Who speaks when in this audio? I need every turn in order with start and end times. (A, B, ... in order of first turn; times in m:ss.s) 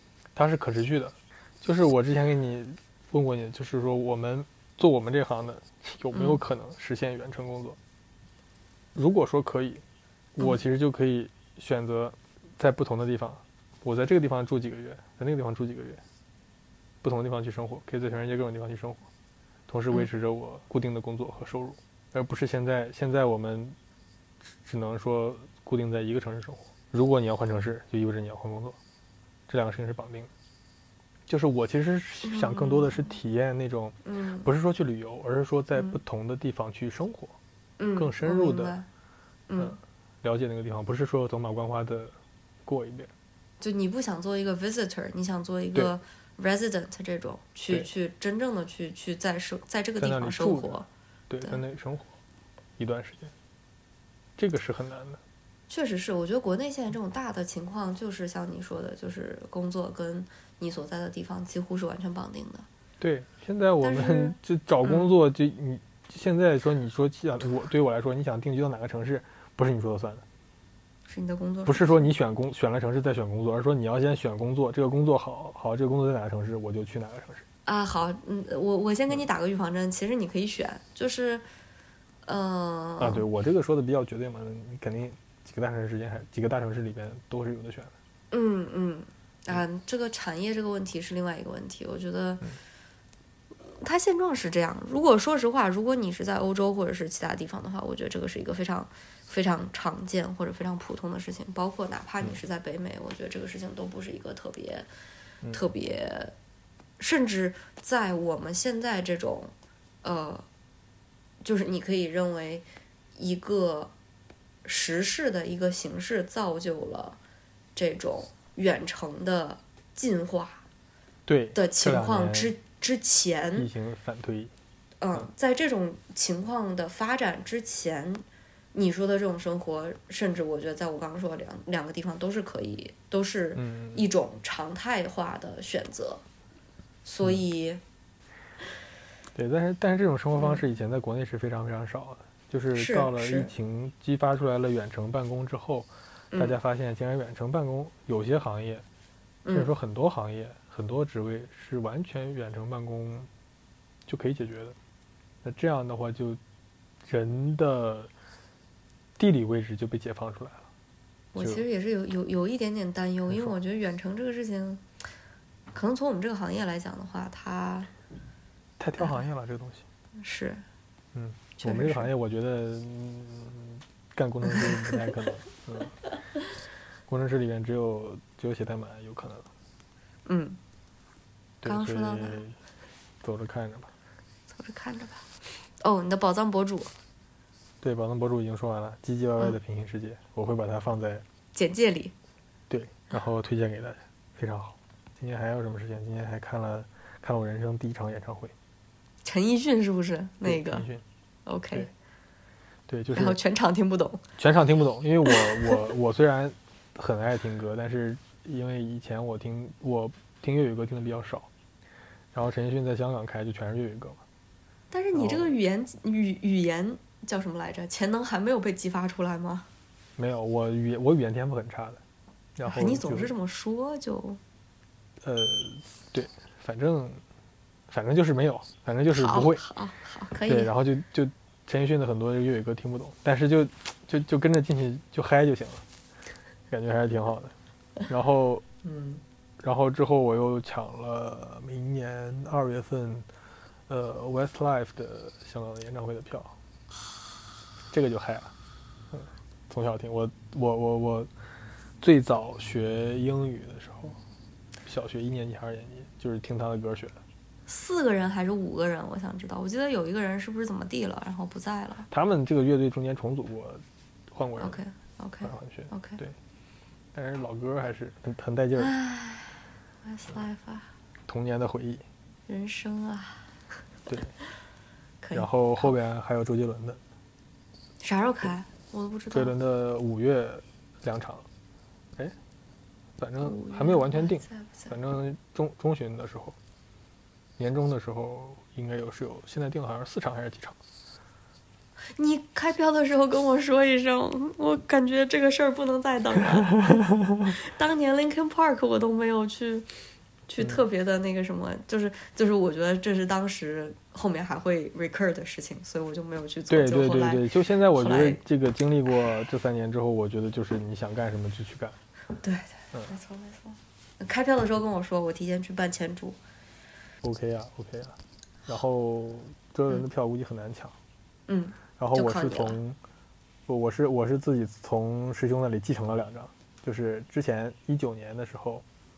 0:00.3-0:07.8 A
0:06.1-0:06.4 B
0:08.9-0:09.8 A
0:10.4-0:16.0 A
0:17.0-0:19.1 A
0:19.7-0:23.8 A
0:24.6-0:28.8 A
0:29.5-0:30.3 A
0:31.3-0:37.4 A
0:32.2-0:33.1 B
0:34.0-0:34.5 B
0:37.8-0:38.9 B
0:38.0-0:38.7 A
0:39.5-0:39.8 B
0:39.6-0:43.1 A
0:43.6-0:50.8 B
0:50.0-0:52.1 A
0:52.8-0:53.3 A
0:54.4-0:55.2 A
0:55.7-1:02.7 B
1:03.0-1:10.2 A
1:03.8-1:05.1 B
1:11.1-1:12.1 B
1:11.6-1:17.4 A
1:17.6-1:21.4 B
1:22.2-1:23.2 B
1:23.0-1:27.9 A
1:28.3-1:32.4 B
1:33.6-1:44.9 B
1:45.5-1:46.3 B
1:47.0-1:49.5 B
1:50.0-1:50.4 B
1:51.4-1:53.9 B
1:54.6-1:57.2 B
1:57.7-2:00.6 B
2:01.2-2:02.5 A
2:01.5-2:03.7 B
2:03.6-2:04.5 A
2:05.0-2:16.2 B
2:13.6-2:14.0 A
2:17.0-2:17.8 B
2:19.3-2:28.8 A
2:22.7-2:23.5 B
2:26.3-2:26.6 B
2:29.4-2:29.7 B
2:29.5-2:33.3 A
2:34.0-2:34.8 A
2:35.4-2:36.4 A
2:37.0-2:38.1 A
2:39.2-2:40.7 A
2:41.3-2:44.8 B
2:41.4-2:41.6 A
2:43.3-2:43.6 A
2:45.7-2:47.9 B
2:48.8-2:49.8 A
2:50.2-2:50.6 B
2:51.1-2:55.9 A
2:51.6-2:52.1 B
2:54.5-2:55.0 B
2:57.1-2:59.5 A
3:00.2-3:00.6 B
3:01.6-3:02.6 A
3:01.6-3:02.4 B
3:03.2-3:03.9 A
3:04.5-3:05.3 B
3:05.8-3:06.9 B
3:07.8-3:11.2 A
3:11.5-3:12.1 B
3:12.7-3:18.5 A
3:19.2-3:20.9 B
3:20.4-3:21.0 A
3:21.4-3:21.9 B
3:22.9-3:23.4 A
3:23.1-3:24.2 B
3:24.4-3:31.5 A
3:25.3-3:25.8 B
3:32.3-3:34.2 A
3:34.9-3:39.7 B
3:35.1-3:35.5 A
3:40.2-3:42.0 A
3:42.6-3:43.3 A
3:42.6-3:44.4 B
3:45.2-3:47.2 A
3:47.9-3:49.6 A
3:49.1-3:50.7 B
3:50.5-3:55.8 A
3:56.7-3:57.5 A
3:58.1-3:58.6 A
3:58.8-3:59.2 B
3:59.6-4:03.3 A
4:03.9-4:06.5 A
4:07.9-4:08.5 A
4:09.1-4:11.3 A
4:12.0-4:14.2 A
4:14.8-4:17.2 A
4:17.7-4:22.1 B
4:22.1-4:24.8 A
4:24.6-4:26.2 B
4:25.4-4:26.4 A
4:27.1-4:28.9 A
4:28.8-4:30.9 B
4:31.3-4:32.0 A
4:32.5-4:33.5 B
4:34.1-4:34.3 A
4:35.2-4:36.0 B
4:35.3-4:37.0 A
4:38.0-4:39.5 B
4:39.3-4:41.4 A
4:43.2-4:46.6 A
4:43.4-4:45.0 B
4:47.6-4:50.8 A
4:52.1-4:59.9 B
4:56.4-4:57.5 A
5:00.5-5:08.4 B
5:00.6-5:00.8 A
5:06.7-5:12.0 A
5:12.4-5:16.4 B
5:17.2-5:20.9 A
5:21.5-5:22.8 B
5:22.0-5:23.0 A
5:23.7-5:28.8 A